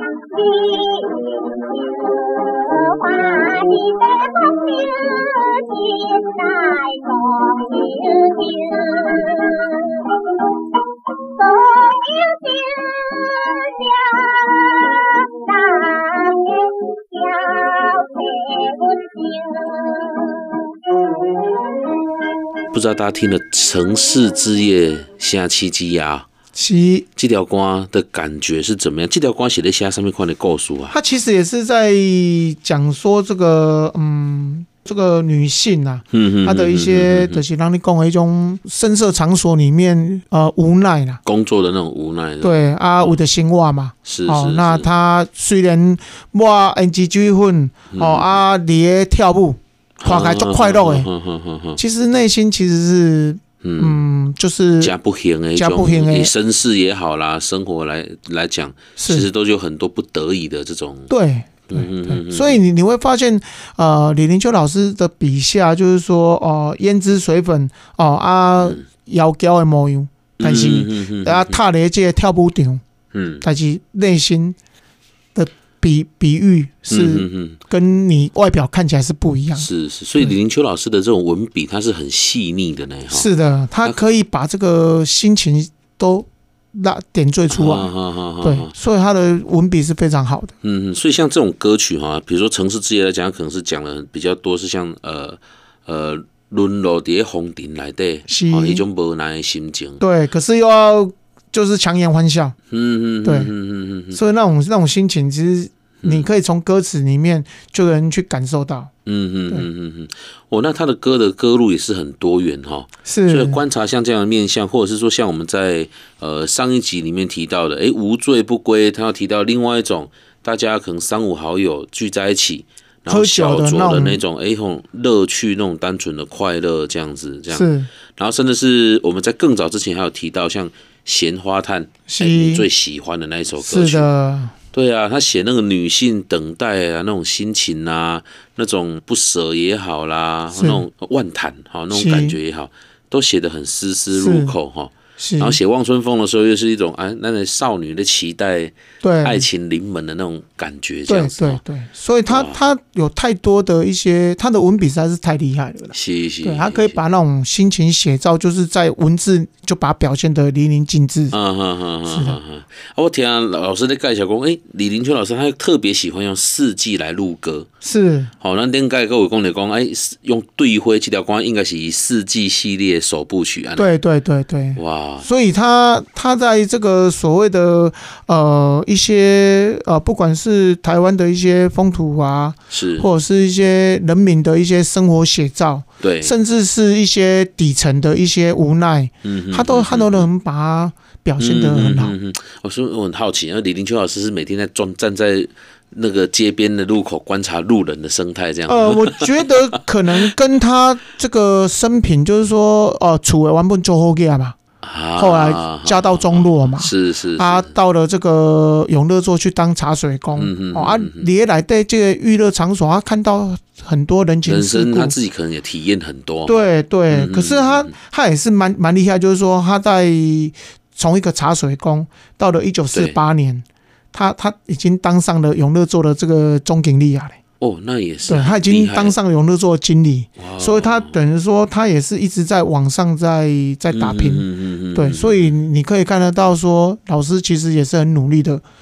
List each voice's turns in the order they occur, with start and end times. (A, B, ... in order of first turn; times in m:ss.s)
0:00.3-0:10.1 A
0:11.4-0:20.6 A
0:22.7-0:26.3 B
0:26.5-0:27.1 C
0:27.2-0:31.0 B
0:30.9-0:41.2 C
0:36.1-0:37.4 B
0:41.2-0:43.2 B
0:42.4-0:51.1 C
0:44.0-0:44.9 B
0:47.9-0:48.4 B
0:50.0-0:51.8 B
0:51.8-0:55.0 C
0:53.6-0:54.0 B
0:54.8-1:01.1 B
0:55.6-0:56.3 C
0:59.0-0:59.3 C
1:01.1-1:12.8 C
1:01.7-1:02.6 B
1:08.6-1:08.8 B
1:10.4-1:11.6 B
1:13.1-1:13.4 B
1:13.4-1:14.6 C
1:15.4-1:19.7 C
1:16.9-1:17.6 B
1:19.6-1:23.3 B
1:23.1-1:30.5 C
1:27.5-1:28.7 B
1:30.6-1:40.0 B
1:38.3-1:38.8 C
1:40.0-1:42.6 C
1:42.7-1:44.2 B
1:43.2-1:43.5 C
1:44.1-1:48.9 C
1:46.0-1:46.3 B
1:49.1-2:14.1 B
1:53.0-1:53.6 C
2:03.1-2:04.2 C
2:07.5-2:07.9 C
2:12.1-2:12.7 C
2:13.6-2:14.5 C
2:14.7-2:31.6 B
2:20.6-2:20.8 C
2:21.9-2:22.4 C
2:24.1-2:24.6 C
2:25.2-2:25.6 C
2:29.0-2:29.4 C
2:31.1-2:41.4 C
2:32.3-2:32.6 B
2:35.9-2:37.0 B
2:41.3-2:47.7 B
2:42.1-2:42.4 C
2:47.8-2:48.3 C
2:48.4-2:53.9 B
2:53.8-3:12.2 C
2:54.8-2:55.3 B
3:02.7-3:03.1 B
3:06.0-3:06.4 B
3:09.2-3:10.3 B
3:11.4-3:19.5 B
3:18.7-3:24.6 C
3:24.8-3:27.7 B
3:25.2-3:35.2 C
3:30.4-3:31.3 B
3:34.4-3:37.9 B
3:36.5-3:47.4 C
3:42.9-3:43.2 B
3:47.6-3:49.2 B
3:48.3-3:58.6 C
3:50.4-3:51.2 B
3:53.9-3:55.6 B